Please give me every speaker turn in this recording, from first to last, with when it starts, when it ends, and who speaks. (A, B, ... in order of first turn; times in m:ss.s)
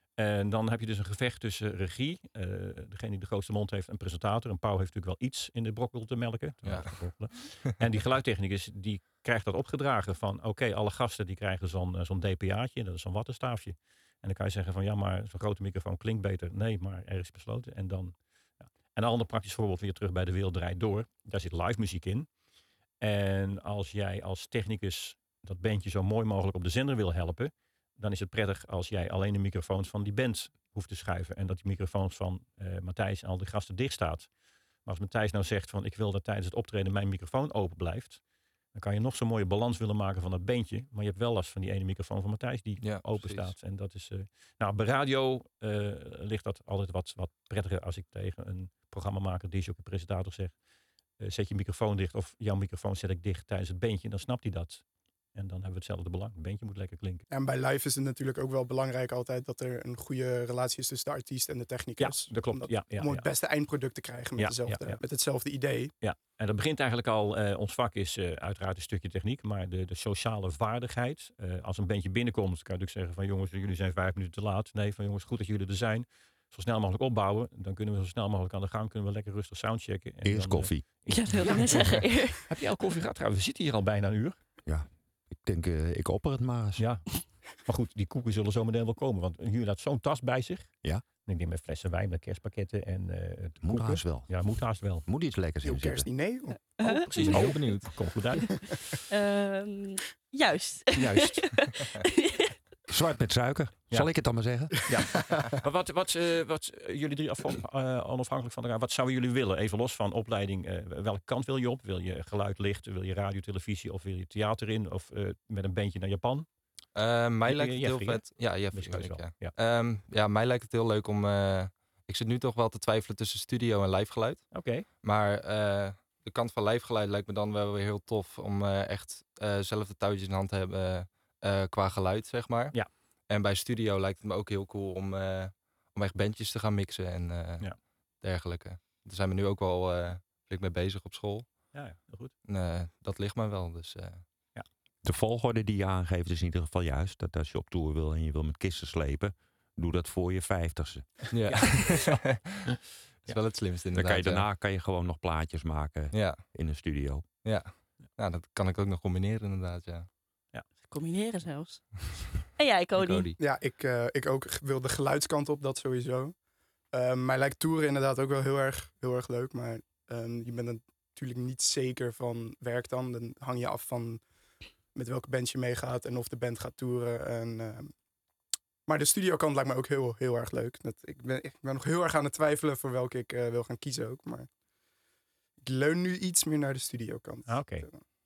0:00.2-0:22.3 A
0:06.6-0:07.7 B
0:23.0-0:34.3 A
0:34.8-0:38.2 A
0:38.7-0:50.6 A
0:42.8-0:43.5 B
0:51.2-0:57.2 A
0:57.3-1:05.9 C
1:02.0-1:03.3 A
1:04.4-1:05.0 A
1:06.0-1:24.4 A
1:20.2-1:20.8 D
1:21.1-1:22.4 E
1:24.6-1:26.8 D
1:26.8-1:35.0 A
1:33.6-1:36.1 D
1:35.6-1:36.8 C
1:36.8-1:37.8 E
1:36.8-1:38.9 A
1:37.2-1:37.9 B
1:39.1-1:42.5 E
1:41.0-1:41.7 A
1:42.9-1:44.9 D
1:43.9-1:56.5 A
1:56.9-2:21.7 B
1:57.4-1:59.6 A
2:04.5-2:04.9 A
2:21.7-2:22.3 A
2:22.5-2:24.2 B
2:25.0-2:31.3 D
2:31.3-2:32.7 B
2:31.4-2:32.2 A
2:33.2-2:34.4 B
2:33.9-2:37.2 D
2:36.1-2:36.5 B
2:37.4-2:40.1 B
2:40.8-2:43.3 E
2:42.9-2:43.4 B
2:43.4-2:54.3 C
2:54.9-2:57.9 C
2:58.8-3:04.5 C
3:05.6-3:08.0 C
3:07.5-3:07.9 A